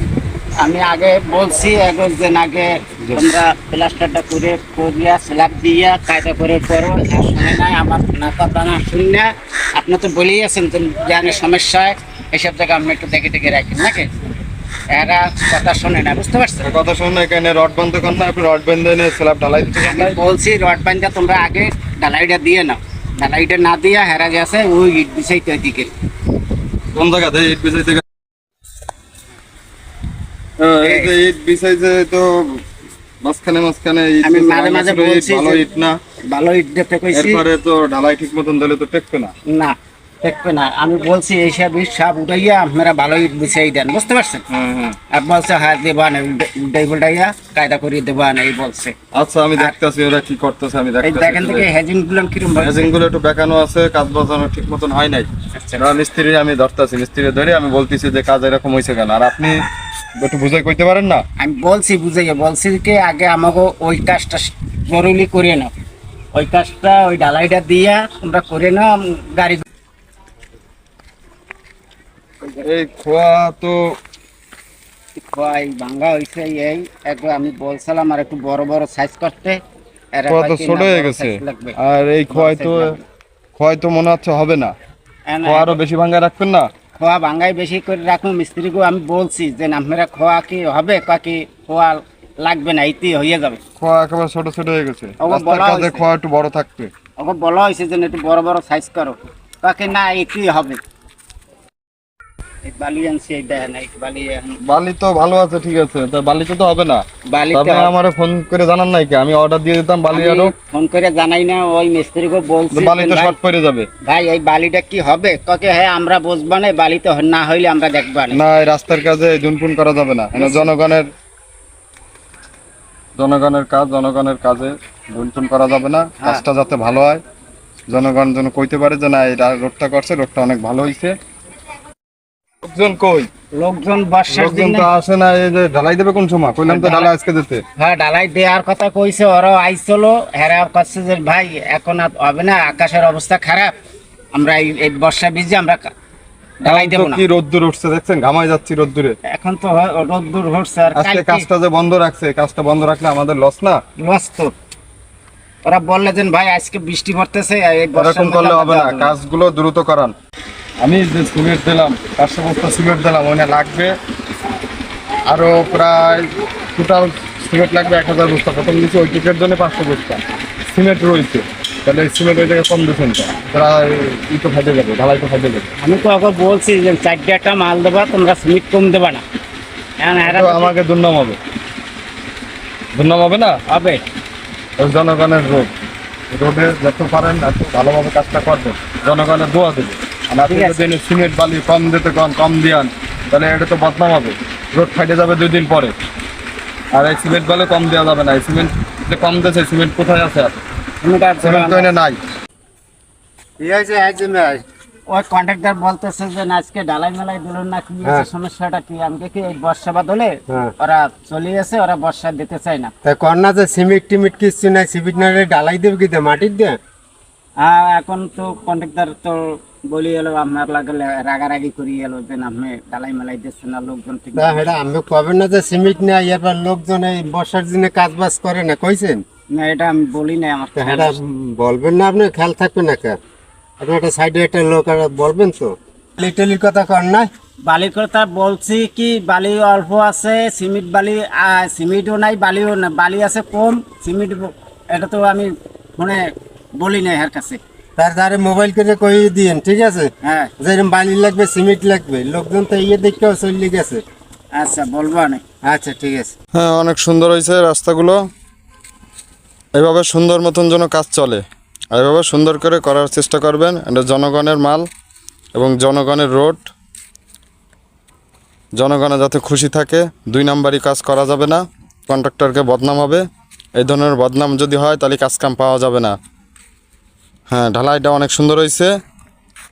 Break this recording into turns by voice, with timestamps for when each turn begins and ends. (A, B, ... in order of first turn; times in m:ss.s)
0:00.6-0:14.2 A
0:14.9-0:16.7 A
0:16.6-0:20.2 B
0:19.8-0:25.9 A
0:26.9-0:28.0 B
0:30.6-0:32.6 B
0:30.8-0:31.1 A
0:33.2-0:36.0 B
0:34.2-0:35.7 A
0:36.3-0:37.4 A
0:37.1-0:39.3 B
0:39.4-0:44.4 A
0:44.5-0:45.0 B
0:45.1-0:49.0 A
0:49.1-0:51.7 B
0:51.0-0:52.9 A
0:52.6-0:59.6 B
0:55.5-0:55.8 A
1:00.2-1:01.2 B
1:01.4-1:05.7 A
1:06.3-1:09.6 A
1:12.6-1:13.9 B
1:15.2-1:19.6 A
1:20.1-1:21.8 A
1:20.3-1:23.0 B
1:22.3-1:23.0 A
1:23.6-1:24.7 B
1:25.3-1:25.8 A
1:25.4-1:26.7 B
1:27.0-1:33.6 A
1:33.8-1:36.9 B
1:35.2-1:36.0 A
1:37.2-1:40.8 A
1:42.6-1:44.6 A
1:44.6-1:50.5 B
1:47.3-1:47.9 A
1:50.1-1:53.4 A
1:52.7-1:53.9 B
1:54.0-1:58.4 A
1:58.3-2:01.1 B
2:00.3-2:00.7 A
2:03.2-2:07.2 B
2:07.9-2:11.1 B
2:12.6-2:13.3 B
2:13.6-2:14.9 A
2:14.3-2:17.6 B
2:16.6-2:17.1 A
2:17.8-2:23.7 A
2:24.3-2:25.9 A
2:26.6-2:27.2 A
2:26.6-2:29.2 B
2:29.3-2:31.4 A
2:30.9-2:33.8 B
2:34.0-2:34.5 A
2:35.6-2:39.1 A
2:38.0-2:40.1 B
2:40.8-2:43.9 B
2:45.3-2:55.7 B
2:55.8-2:59.2 A
3:00.0-3:00.7 A
3:00.2-3:01.4 B
3:02.9-3:03.6 B
3:03.7-3:04.0 A
3:04.8-3:05.7 B
3:06.3-3:15.9 B
3:10.4-3:10.8 A
3:16.9-3:20.5 B
3:21.0-3:21.9 A
3:21.4-3:22.2 B
3:23.6-3:24.6 C
3:25.1-3:32.9 A
3:33.0-3:36.8 C
3:37.6-3:44.7 A
3:44.3-3:49.2 C
3:49.5-3:51.2 A
3:50.8-3:53.2 C
3:53.8-3:57.3 C
3:57.6-4:07.6 A
4:08.0-4:14.0 C
4:10.2-4:10.5 A
4:14.5-4:15.4 A
4:15.6-4:16.3 C
4:16.5-4:18.2 B
4:19.7-4:24.8 B
4:25.5-4:26.7 B
4:28.8-4:33.2 B
4:33.8-4:36.2 B
4:37.5-4:38.9 B